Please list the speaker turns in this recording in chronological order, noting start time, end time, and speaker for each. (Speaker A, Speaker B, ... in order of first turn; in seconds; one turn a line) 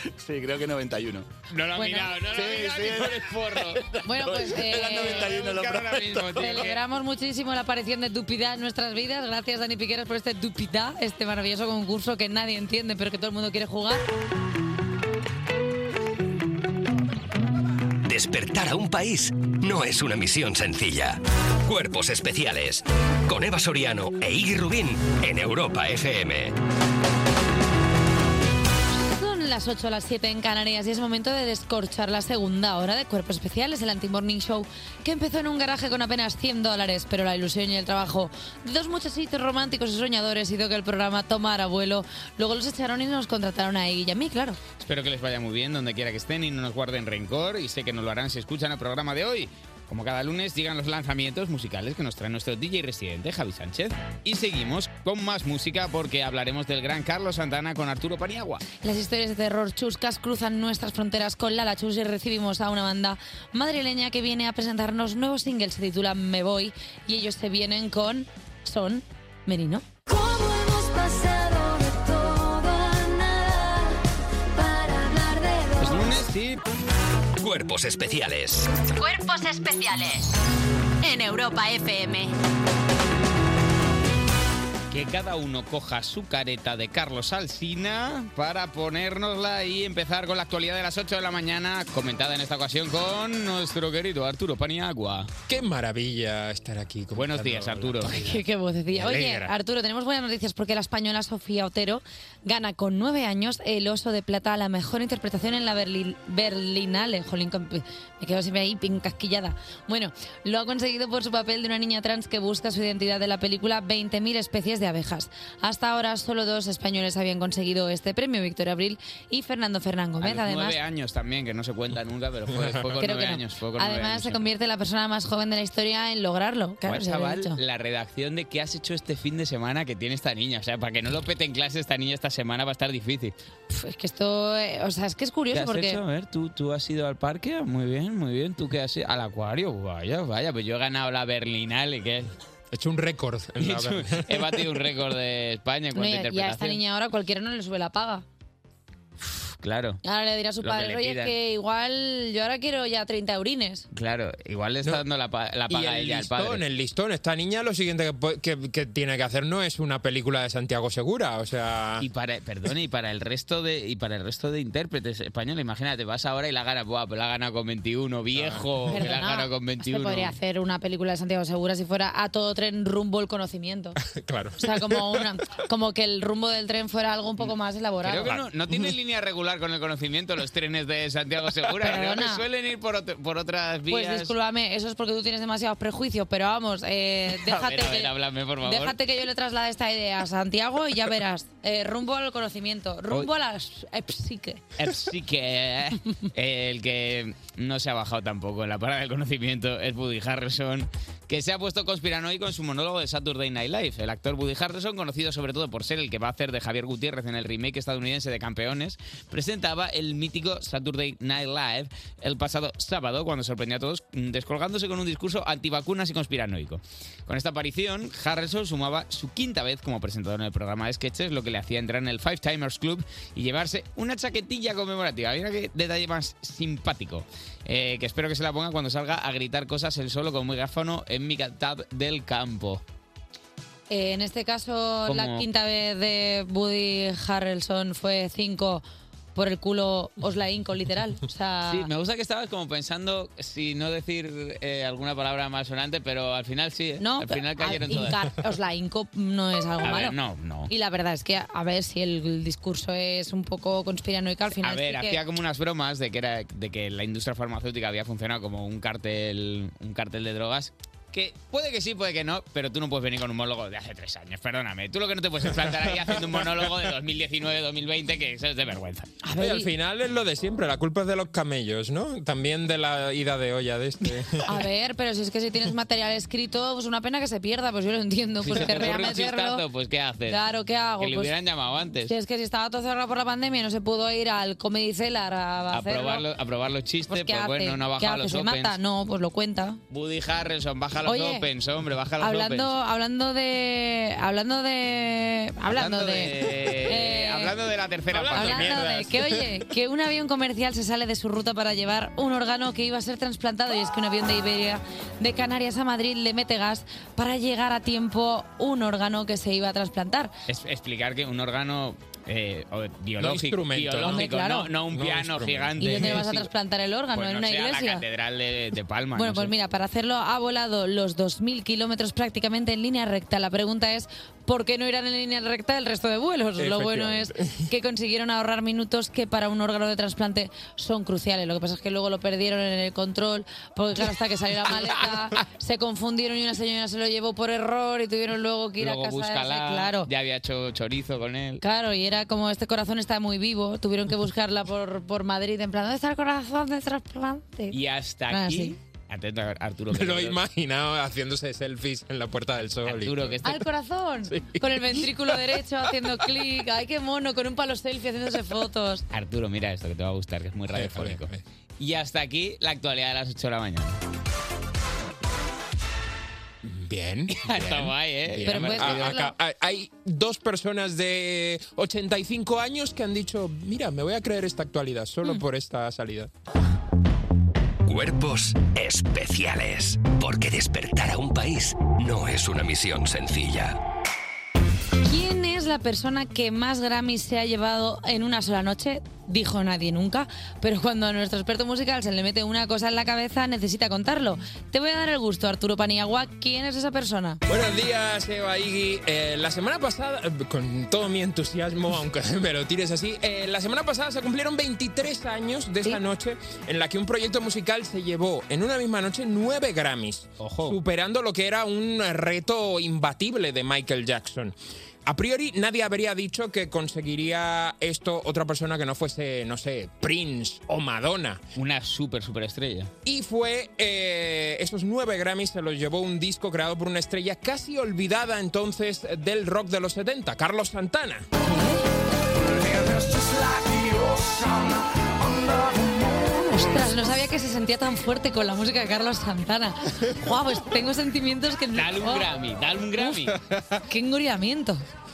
Speaker A: 0.2-1.3
Speaker B: 1.5-3.9
Speaker C: 1.8-2.2
Speaker A: 2.2-6.7
Speaker C: 4.0-5.4
Speaker B: 4.7-6.8
Speaker C: 6.4-14.1
Speaker D: 18.0-26.6
Speaker C: 28.9-44.6
Speaker B: 44.8-58.6
Speaker C: 58.8-69.8
Speaker E: 70.0-76.2
Speaker B: 75.8-76.6
Speaker D: 77.4-78.7
Speaker F: 78.8-80.3
Speaker F: 81.0-82.3
Speaker B: 84.9-95.3
Speaker G: 95.5-98.4
Speaker B: 97.1-98.3
Speaker C: 98.1-120.8
Speaker G: 98.9-99.5
Speaker B: 120.2-124.5
Speaker C: 123.0-127.6
Speaker B: 126.8-133.3
Speaker C: 133.7-136.0
Speaker B: 135.5-142.3
Speaker G: 142.7-144.4
Speaker B: 143.6-146.8
Speaker C: 145.9-148.2
Speaker B: 149.2-150.0
Speaker C: 150.0-153.9
Speaker B: 150.6-151.3
Speaker B: 153.9-156.6
Speaker G: 155.7-162.1
Speaker B: 162.0-170.3
Speaker G: 168.3-168.8
Speaker C: 168.9-174.0
Speaker G: 174.0-175.2
Speaker C: 174.6-178.4
Speaker B: 177.4-184.3
Speaker C: 181.8-182.4
Speaker C: 183.9-194.6
Speaker B: 187.4-189.0
Speaker B: 194.8-232.8
Speaker C: 233.9-238.8
Speaker B: 235.1-235.4
Speaker C: 239.3-241.9
Speaker B: 241.7-248.2
Speaker C: 247.0-250.2
Speaker B: 249.8-250.7
Speaker C: 250.7-255.2
Speaker B: 254.6-269.1
Speaker G: 265.9-266.3
Speaker C: 269.2-269.7
Speaker G: 269.4-274.6
Speaker C: 274.4-279.6
Speaker B: 278.4-280.4
Speaker C: 280.3-281.3
Speaker B: 281.0-282.1
Speaker C: 282.1-286.2
Speaker B: 285.7-288.8
Speaker C: 287.1-289.8
Speaker B: 289.9-292.7
Speaker C: 291.0-291.5
Speaker C: 292.2-297.5
Speaker B: 295.7-299.2
Speaker G: 298.2-298.8
Speaker C: 298.2-310.3
Speaker B: 310.5-316.5
Speaker G: 313.2-316.2
Speaker C: 314.0-314.7
Speaker C: 315.8-318.0
Speaker B: 317.1-319.5
Speaker C: 319.1-340.1
Speaker G: 326.6-327.7
Speaker B: 338.8-341.6
Speaker C: 341.6-347.8
Speaker B: 347.7-350.4
Speaker C: 348.3-348.8
Speaker G: 349.9-353.4
Speaker B: 352.8-353.6
Speaker C: 353.4-359.0
Speaker G: 354.3-355.3
Speaker B: 359.1-364.0
Speaker G: 360.7-361.4
Speaker G: 366.6-376.3
Speaker B: 367.3-369.2
Speaker C: 368.4-369.3
Speaker D: 377.9-383.8
Speaker C: 385.0-397.4
Speaker G: 397.5-414.5
Speaker B: 410.4-410.8
Speaker G: 415.1-421.4
Speaker B: 421.5-422.9
Speaker G: 423.0-431.3
Speaker C: 431.4-431.8
Speaker C: 436.2-442.3
Speaker B: 441.7-443.4
Speaker G: 443.3-443.8
Speaker C: 443.9-444.8